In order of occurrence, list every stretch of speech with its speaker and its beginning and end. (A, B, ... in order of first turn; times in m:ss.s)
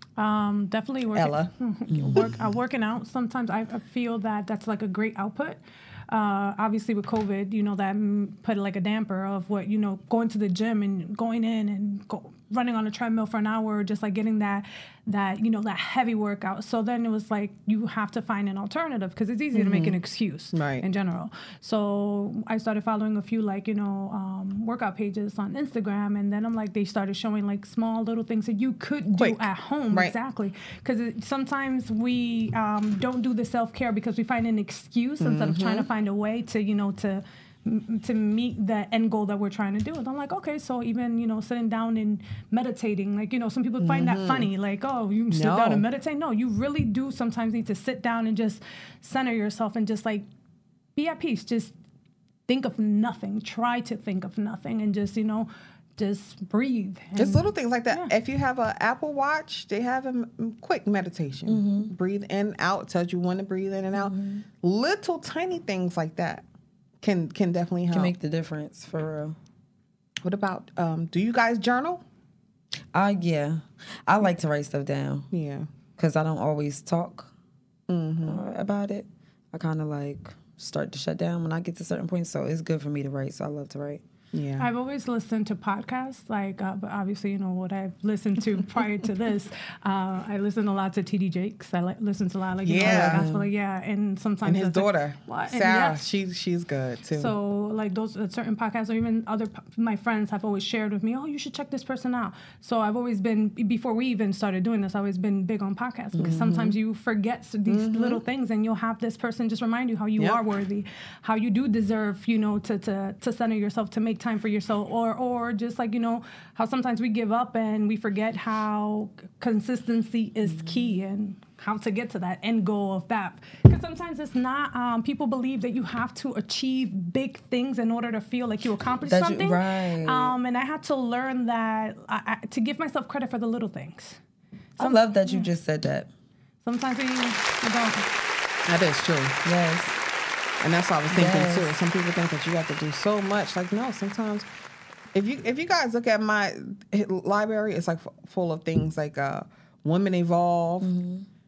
0:00.2-0:50.3 A
0:01.2-0:01.5 B
0:01.9-0:02.3 C
0:19.5-0:20.0 B
0:20.5-0:20.8 B
0:29.2-0:30.1 B
0:35.2-0:35.9 B
0:43.8-0:44.5 B
0:45.3-0:45.8 B
0:51.0-0:51.7 A
0:52.5-0:58.1 A
0:57.2-1:06.4 B
1:01.5-1:01.9 C
1:03.9-1:04.4 C
1:07.0-1:08.1 B
1:07.9-1:09.4 C
1:10.2-1:12.0 B
1:12.9-1:15.3 C
1:15.3-1:15.7 B
1:16.0-1:17.3 C
1:17.9-1:18.4 B
1:18.3-1:24.0 C
1:24.3-1:24.7 B
1:24.6-1:36.0 A
1:32.6-1:33.2 B
1:32.8-1:33.5 C
1:34.4-1:37.3 B
1:37.1-2:14.2 A
1:46.2-1:46.5 C
1:46.2-1:46.8 B
1:47.7-1:48.2 B
2:00.4-2:01.0 C
2:09.1-2:10.4 C
2:14.8-2:15.5 A
2:14.8-2:16.1 C
2:16.6-2:18.1 A
2:18.7-2:19.4 B
2:19.4-2:20.0 C
2:20.6-2:24.5 B
2:21.1-2:21.7 C
2:25.1-2:30.9 B
2:30.8-2:31.3 C